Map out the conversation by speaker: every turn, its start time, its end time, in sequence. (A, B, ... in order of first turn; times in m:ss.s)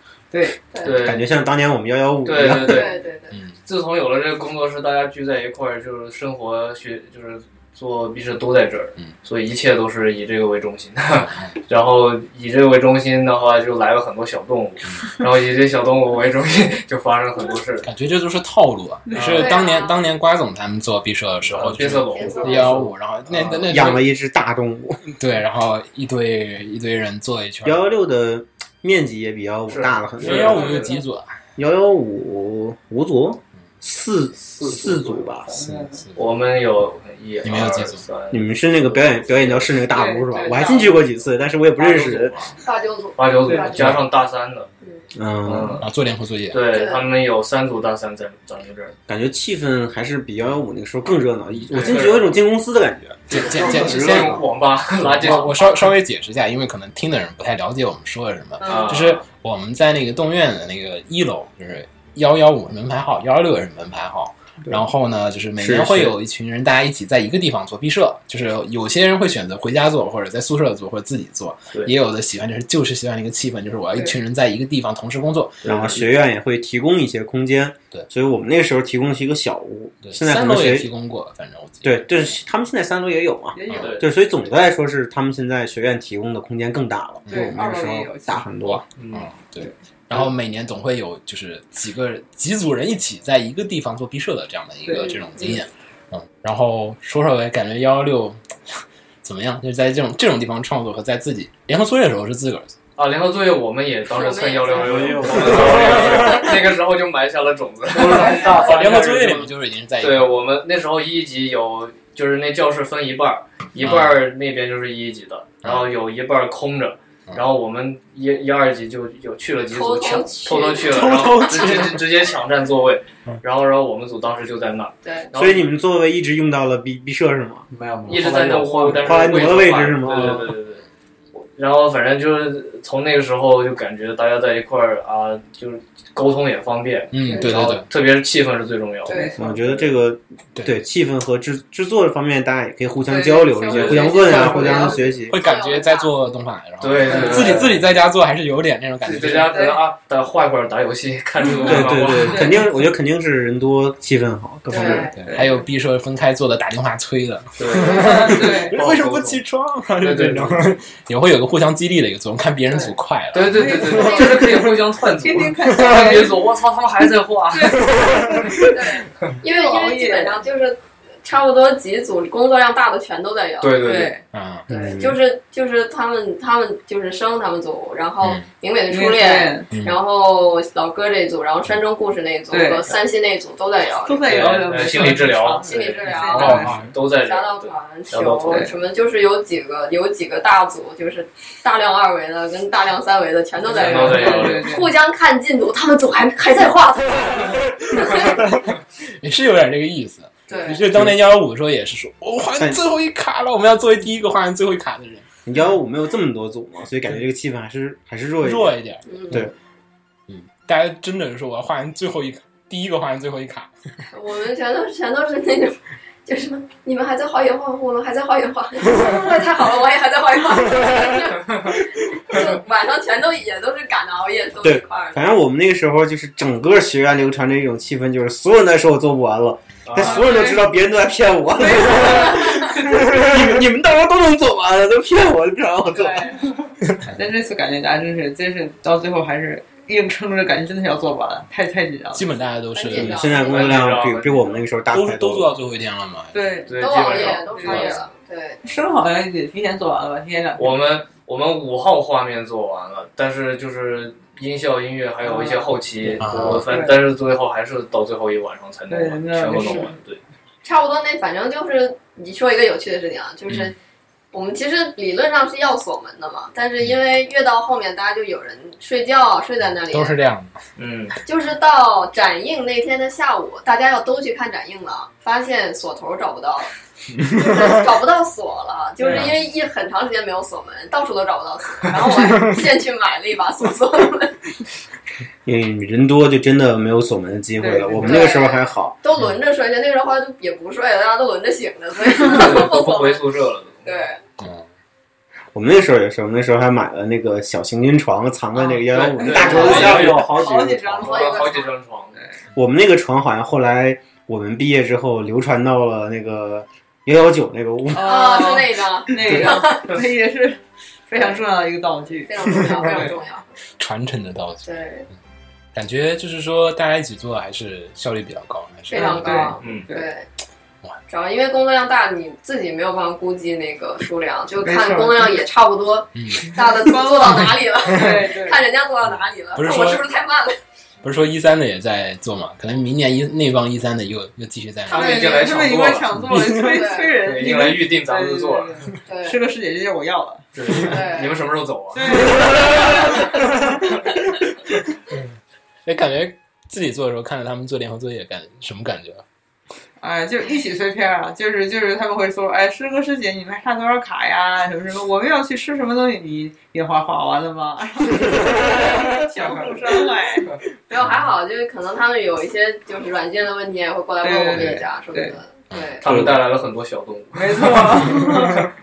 0:00.3-0:00.6 A
0:00.8-0:01.3 B
0:00.9-0:02.9 C
0:02.2-0:03.0 B
0:02.6-0:03.4 D
0:03.3-0:03.6 E
0:03.7-0:17.9 B
0:11.1-0:11.5 E
0:17.8-0:24.1 E
0:19.1-0:19.5 A
0:19.1-0:19.5 B
0:19.3-0:20.0 D
0:21.5-0:23.9 B
0:22.1-0:22.8 D
0:23.6-0:25.0 C
0:25.1-0:27.8 E
0:27.6-0:30.7 C
0:29.7-0:31.0 B
0:30.2-0:31.4 E
0:30.6-0:31.0 A
0:31.6-0:35.5 C
0:34.4-0:35.4 F
0:35.5-0:36.0 A
0:35.7-0:36.2 E
0:36.2-0:39.8 B
0:37.4-0:38.0 E
0:38.3-0:42.4 C
0:39.9-0:41.0 A
0:41.8-0:42.6 B
0:42.6-0:43.9 D
0:43.2-0:44.7 B
0:43.4-0:43.7 A
0:43.7-0:44.1 E
0:45.1-0:45.8 C
0:45.4-0:45.9 B
0:45.8-0:46.7 E
0:46.5-0:49.0 B
0:46.7-0:47.0 D
0:49.1-0:53.3 C
0:51.6-0:52.0 E
0:51.7-0:52.4 B
0:53.3-0:54.4 E
0:53.3-0:55.9 B
0:53.4-0:54.5 F
0:54.9-1:15.7 E
0:58.6-0:59.0 D
0:58.6-0:59.2 B
1:05.6-1:06.1 C
1:15.6-1:16.1 B
1:15.6-1:20.9 C
1:20.0-1:22.1 E
1:21.8-1:28.8 C
1:23.6-1:24.0 A
1:23.8-1:24.1 B
1:27.3-1:27.6 E
1:27.3-1:28.5 A
1:28.6-1:42.8 E
1:29.0-1:29.3 B
1:34.8-1:35.5 A
1:43.0-1:49.2 B
1:44.1-1:45.4 D
1:44.7-1:46.4 F
1:46.2-1:46.5 E
1:48.0-1:49.5 F
1:48.1-1:50.4 E
1:48.2-1:48.5 D
1:50.0-2:05.7 B
1:53.8-1:54.2 E
1:55.6-1:55.9 E
1:59.7-2:01.8 D
2:00.8-2:02.0 E
2:05.0-2:05.3 D
2:05.4-2:07.7 C
2:07.7-2:10.2 F
2:08.1-2:19.3 B
2:09.0-2:10.5 C
2:17.1-2:17.9 E
2:19.1-2:19.6 D
2:19.1-2:19.4 A
2:19.4-2:25.4 C
2:23.1-2:25.2 A
2:23.7-2:24.2 B
2:24.0-2:26.4 D
2:25.3-2:29.6 E
2:26.8-2:27.8 B
2:27.1-2:27.7 A
2:29.0-2:32.6 B
2:29.2-2:29.8 A
2:31.4-2:32.7 A
2:31.6-2:35.1 C
2:34.7-2:35.1 D
2:34.8-2:35.7 A
2:35.1-2:44.6 E
2:37.6-2:39.4 B
2:37.8-2:38.8 A
2:40.0-2:40.6 B
2:43.3-2:47.9 B
2:43.5-2:44.6 A
2:43.9-2:44.4 D
2:45.2-2:46.4 A
2:47.5-2:48.8 A
2:48.0-2:48.4 E
2:48.6-2:54.1 D
2:49.4-2:50.4 A
2:53.6-2:54.1 B
2:53.8-2:54.2 A
2:54.3-2:54.6 E
2:54.7-3:04.6 D
2:54.7-2:55.2 C
2:58.2-2:58.5 E
2:58.9-2:59.7 A
2:59.7-3:00.0 E
3:02.5-3:03.0 A
3:04.0-3:06.8 A
3:04.3-3:08.7 B
3:05.6-3:18.4 D
3:06.3-3:06.9 E
3:08.5-3:08.7 A
3:13.7-3:14.9 A
3:13.7-3:14.7 B
3:18.0-3:25.3 E
3:20.5-3:20.8 D
3:22.6-3:22.8 C
3:25.5-3:28.8 C
3:28.4-3:29.5 E
3:29.1-3:29.4 D
3:30.3-3:33.7 E
3:34.1-3:45.3 D
3:44.6-3:56.4 C
3:49.8-3:50.4 B
3:50.0-3:50.7 A
3:51.6-3:53.0 A
3:51.9-3:52.7 D
3:56.0-3:56.3 D
3:56.0-3:56.5 A
3:56.9-3:57.2 E
3:57.2-4:02.3 A
4:02.1-4:03.4 E
4:02.7-4:03.8 D
4:02.9-4:05.5 C
4:03.3-4:04.6 B
4:04.9-4:06.6 E
4:06.3-4:08.0 A
4:06.7-4:07.9 B
4:06.8-4:08.6 D
4:08.6-4:10.8 A
4:10.6-4:20.2 B
4:15.2-4:15.7 A
4:16.1-4:16.7 F
4:16.2-4:16.6 E
4:16.7-4:17.0 A
4:18.9-4:20.0 A
4:20.6-4:23.7 D
4:23.5-4:23.7 E
4:24.3-4:30.2 D
4:29.9-4:30.5 E
4:30.8-4:31.2 B
4:31.2-4:36.7 D
4:37.3-4:44.4 D
4:39.0-4:39.3 A
4:45.4-4:49.0 C
4:47.6-4:48.3 A
4:48.0-4:53.2 D
4:52.2-4:54.0 B
4:53.8-4:54.2 D
4:54.4-4:54.7 E
4:55.5-5:00.6 C
4:58.6-5:02.4 A
4:58.9-5:00.3 B
4:59.4-5:01.1 F
5:01.0-5:02.2 B
5:02.6-5:08.4 C
5:07.9-5:13.2 A
5:08.0-5:09.9 D
5:12.3-5:13.5 D
5:13.8-5:14.7 E
5:14.6-5:15.1 D
5:15.7-5:19.5 E
5:18.9-5:20.3 D
5:18.9-5:20.1 A
5:19.6-5:19.9 B
5:21.1-5:30.6 D
5:24.6-5:25.4 A
5:26.1-5:26.6 E
5:26.8-5:28.6 A
5:29.6-5:30.0 E
5:31.0-5:35.4 E
5:34.9-5:40.4 A
5:34.9-5:36.2 B
5:34.9-5:35.3 D
5:36.2-5:36.9 E
5:36.6-5:37.2 D
5:37.2-5:38.8 B
5:39.1-5:39.4 D
5:40.6-5:43.1 B
5:40.8-5:41.4 D
5:41.9-5:43.8 A
5:45.9-5:49.2 E
5:50.0-6:00.6 A
6:00.9-6:06.0 D
6:04.2-6:05.4 A
6:05.7-6:06.3 E
6:06.0-6:08.0 B
6:07.4-6:08.7 A
6:08.0-6:08.5 E